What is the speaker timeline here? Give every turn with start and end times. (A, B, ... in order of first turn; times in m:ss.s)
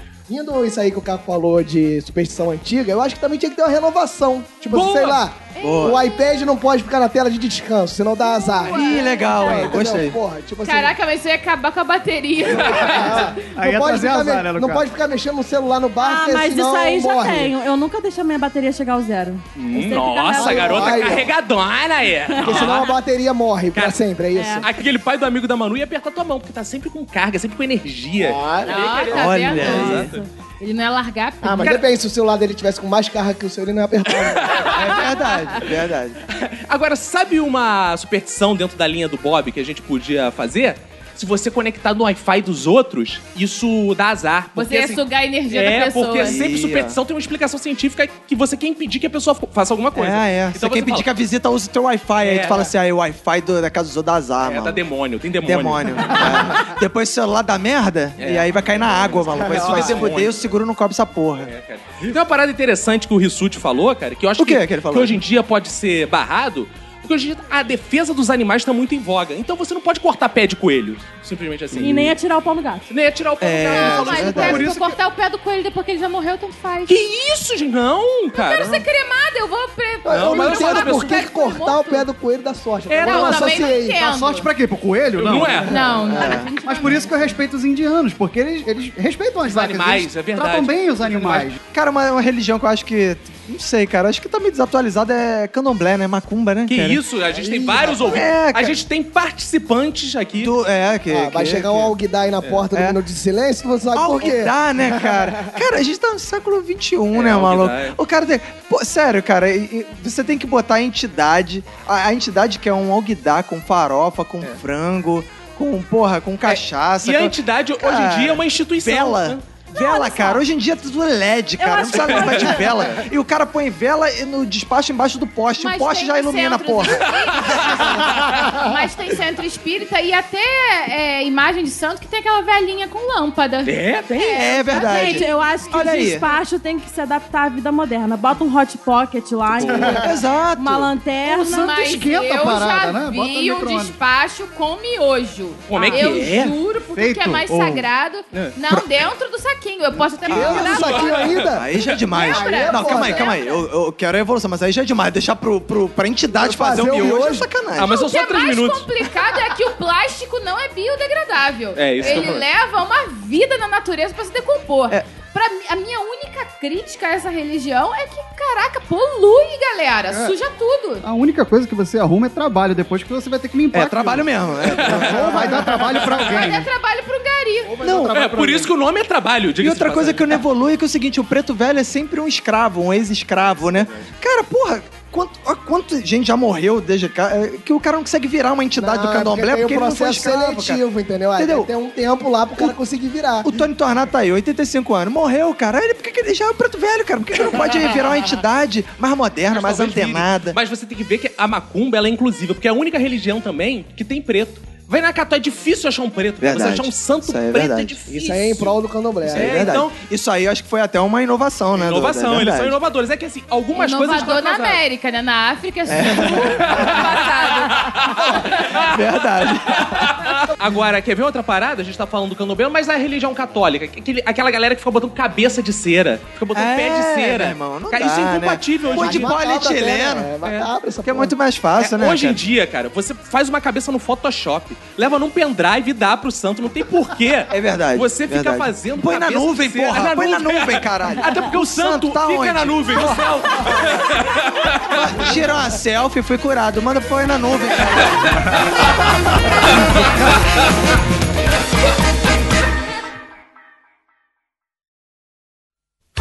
0:00.3-0:11.0 A
0:04.7-0:05.2 B
0:05.6-0:06.3 C
0:05.6-0:06.0 D
0:08.2-0:09.7 C
0:08.7-0:10.2 D
0:10.6-0:13.4 C
0:12.6-0:13.0 B
0:12.6-0:17.5 A
0:13.5-0:14.9 E
0:16.0-0:21.2 F
0:19.6-0:23.0 B
0:20.4-0:21.3 A
0:22.3-0:22.8 F
0:22.4-0:24.6 A
0:23.7-0:24.0 B
0:24.3-0:24.6 F
0:24.6-0:30.2 B
0:28.2-0:29.0 A
0:28.6-0:31.8 C
0:29.1-0:30.1 D
0:29.7-0:30.3 F
0:31.4-0:34.7 A
0:34.2-0:35.0 B
0:34.7-0:36.2 D
0:36.3-0:51.1 B
0:44.6-0:46.4 C
0:46.2-0:47.0 D
0:50.0-0:54.8 D
0:52.2-0:52.7 B
0:54.4-0:56.7 B
0:55.4-1:01.5 D
0:58.2-1:00.6 B
0:59.4-1:00.1 A
1:01.4-1:12.2 B
1:04.4-1:05.2 D
1:11.8-1:12.9 F
1:12.9-1:14.8 B
1:13.4-1:14.7 D
1:13.7-1:17.0 C
1:16.9-1:18.9 B
1:18.3-1:22.1 C
1:20.0-1:24.0 A
1:20.1-1:21.3 B
1:22.9-1:23.4 B
1:23.0-1:24.5 C
1:23.1-1:31.6 E
1:25.2-1:25.7 B
1:25.7-1:27.3 C
1:26.0-1:26.5 D
1:29.5-1:31.5 B
1:31.7-1:37.0 D
1:36.7-1:40.5 B
1:37.3-1:38.3 A
1:38.1-1:38.8 D
1:40.4-1:41.9 D
1:41.1-1:45.6 A
1:42.7-1:43.0 D
1:43.9-2:07.1 D
1:47.1-1:48.0 B
1:56.4-1:59.4 B
1:59.8-2:00.4 C
2:01.6-2:02.9 F
2:02.0-2:02.8 B
2:05.6-2:16.4 C
2:06.9-2:08.4 B
2:13.6-2:15.0 B
2:14.3-2:16.2 D
2:14.8-2:21.8 F
2:19.5-2:20.0 B
2:19.7-2:20.0 E
2:19.9-2:21.0 D
2:21.3-2:31.4 C
2:21.6-2:24.0 E
2:25.7-2:26.6 B
2:25.9-2:26.3 E
2:26.9-2:27.9 E
2:30.2-2:30.9 D
2:30.3-2:33.3 A
2:30.6-2:31.9 B
2:31.5-2:38.0 D
2:32.1-2:33.6 C
2:36.3-2:37.5 A
2:37.8-2:38.9 B
2:37.9-2:51.0 C
2:41.8-2:42.5 B
2:51.0-2:56.7 E
2:53.7-2:56.0 D
2:54.6-2:56.5 B
2:56.3-2:57.9 C
2:57.6-2:58.7 E
2:57.8-2:58.2 D
2:57.9-3:00.4 B
2:59.6-3:10.8 D
3:08.8-3:13.5 A
3:11.4-3:11.7 D
3:13.4-3:20.6 D
3:17.7-3:18.0 B
3:19.5-3:28.8 B
3:26.4-3:28.0 D
3:28.1-3:29.7 A
3:29.3-3:32.8 D
3:29.3-3:30.0 B
3:31.7-3:34.8 B
3:33.7-3:38.8 C
3:35.9-3:36.8 D
3:36.2-3:49.3 B
3:38.8-3:40.2 D
3:46.5-3:50.3 D
3:48.9-3:51.4 A
3:50.4-3:50.7 B
3:51.0-3:52.4 D
3:51.8-4:05.4 B
3:57.5-4:03.9 D
4:04.9-4:08.8 D
4:08.4-4:08.6 B
4:09.7-4:10.3 B